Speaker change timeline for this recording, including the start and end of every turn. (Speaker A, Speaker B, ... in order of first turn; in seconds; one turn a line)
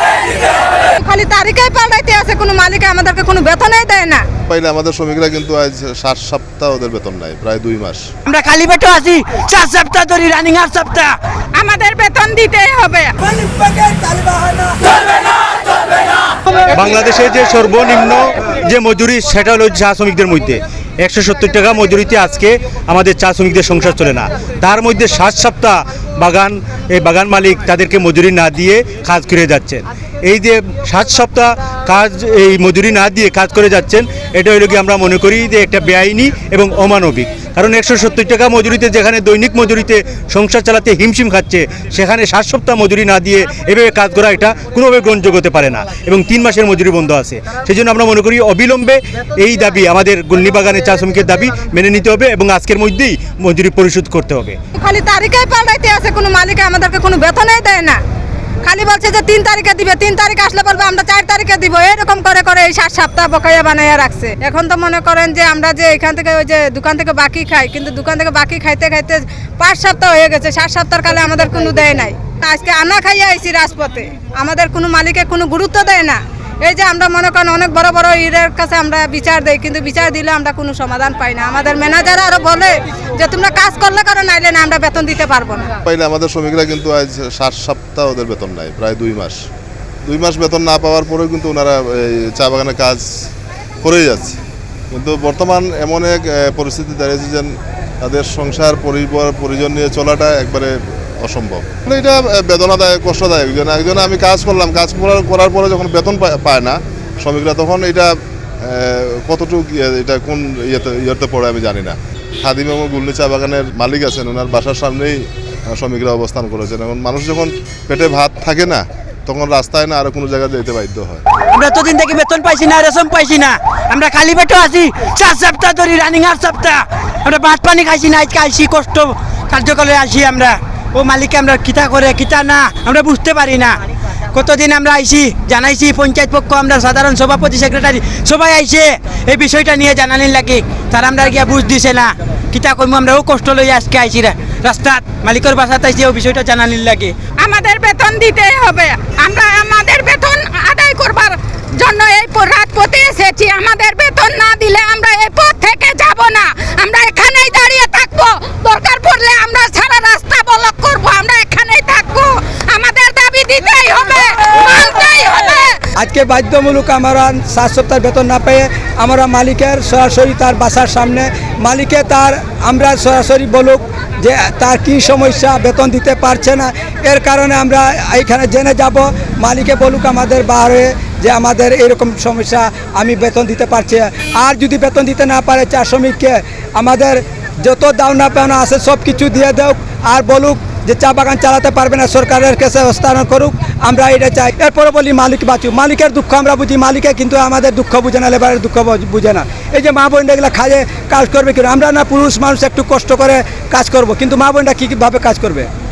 Speaker A: 1.0-4.2
Speaker B: 4.5-8.0
Speaker C: 8.2-11.2
Speaker A: 11.6-13.2
Speaker D: 13.3-14.9
Speaker E: 16.7-54.6
Speaker A: 54.8-58.0
Speaker A: 58.6-85.7
Speaker B: 85.8-89.4
Speaker B: 90.0-93.0
Speaker B: 93.8-94.4
Speaker B: 94.9-108.1
Speaker B: 108.7-115.2
Speaker B: 115.7-121.2
Speaker C: 121.5-133.8
Speaker C: 134.3-147.1
Speaker A: 147.4-165.8
Speaker D: 166.0-205.7